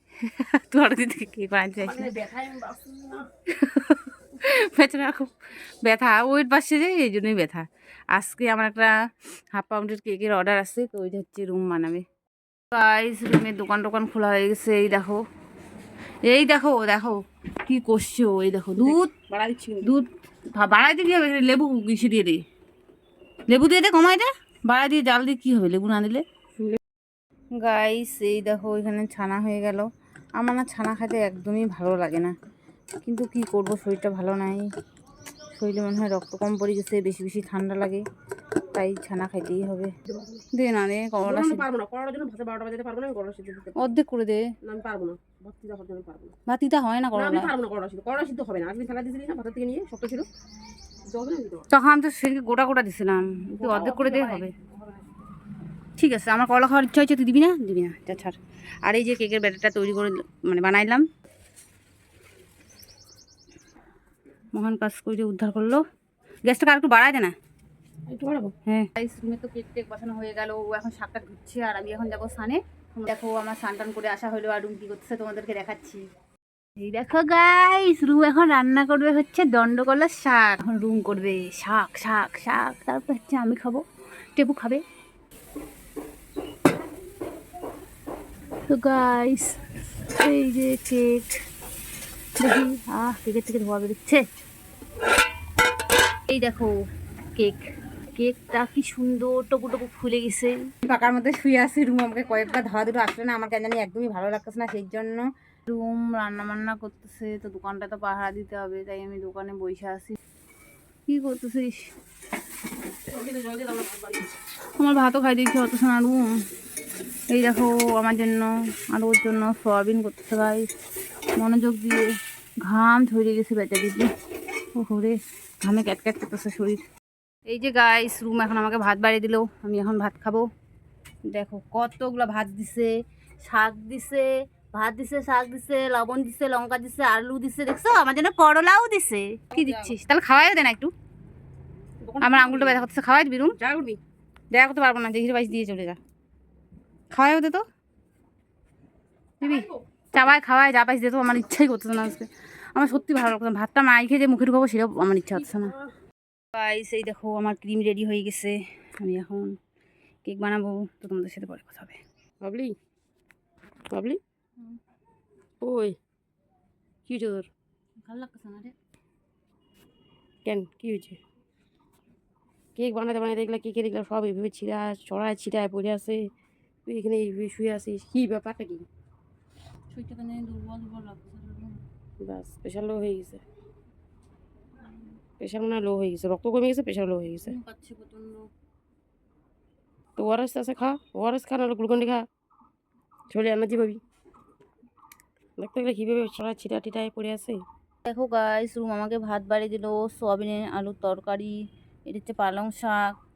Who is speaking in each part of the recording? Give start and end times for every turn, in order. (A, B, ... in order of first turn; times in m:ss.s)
0:00.2-0:02.1 A
0:01.8-0:03.3 B
0:03.5-0:05.3 A
0:05.8-0:12.0 A
0:12.7-0:15.2 A
0:16.2-0:19.1 A
0:18.8-0:19.9 B
0:19.8-0:22.4 A
0:23.5-0:26.2 A
0:27.6-0:32.4 A
0:33.0-0:34.7 A
0:35.6-0:38.0 A
0:38.7-0:39.9 A
0:40.1-0:40.4 B
0:40.5-0:41.6 A
0:41.2-0:43.9 B
0:43.8-0:44.5 A
0:44.6-0:46.3 B
0:46.5-0:47.5 A
0:47.1-0:50.3 B
0:51.0-0:51.7 B
0:51.7-0:54.5 A
0:53.6-0:55.0 B
0:56.0-1:01.1 A
1:04.6-1:05.8 A
1:06.5-1:07.4 A
1:08.1-1:08.6 B
1:08.7-1:16.0 A
1:16.8-1:23.8 A
1:24.4-1:24.8 A
1:28.7-1:29.6 A
1:30.1-1:31.4 A
1:32.4-1:34.2 A
1:36.3-1:36.8 A
1:37.4-1:50.2 A
1:51.1-1:51.9 A
1:53.1-1:54.3 B
1:54.8-1:56.4 A
1:57.3-2:00.7 A
2:01.4-2:02.1 A
2:02.6-2:04.1 A
2:04.8-2:06.8 A
2:07.5-2:10.5 A
2:11.3-2:20.9 A
2:19.5-2:19.9 B
2:22.0-2:22.8 B
2:22.2-2:23.6 A
2:23.5-2:24.0 B
2:24.5-2:26.0 A
2:27.1-2:27.6 A
2:29.4-2:35.8 A
2:29.4-2:29.7 B
2:35.6-2:35.8 B
2:36.5-2:39.6 A
2:40.3-2:42.0 A
2:42.4-2:42.8 B
2:43.9-2:44.2 B
2:45.6-2:46.0 B
2:47.1-2:47.5 B
2:48.0-2:48.8 A
2:50.4-2:51.2 B
2:52.8-2:56.3 B
2:56.9-2:58.9 B
2:59.9-3:01.8 A
3:02.2-3:03.4 B
3:05.4-3:07.6 B
3:07.4-3:08.5 A
3:10.2-3:12.3 B
3:13.3-3:14.0 B
3:15.6-3:17.6 B
3:18.0-3:21.6 A
3:22.1-3:23.2 A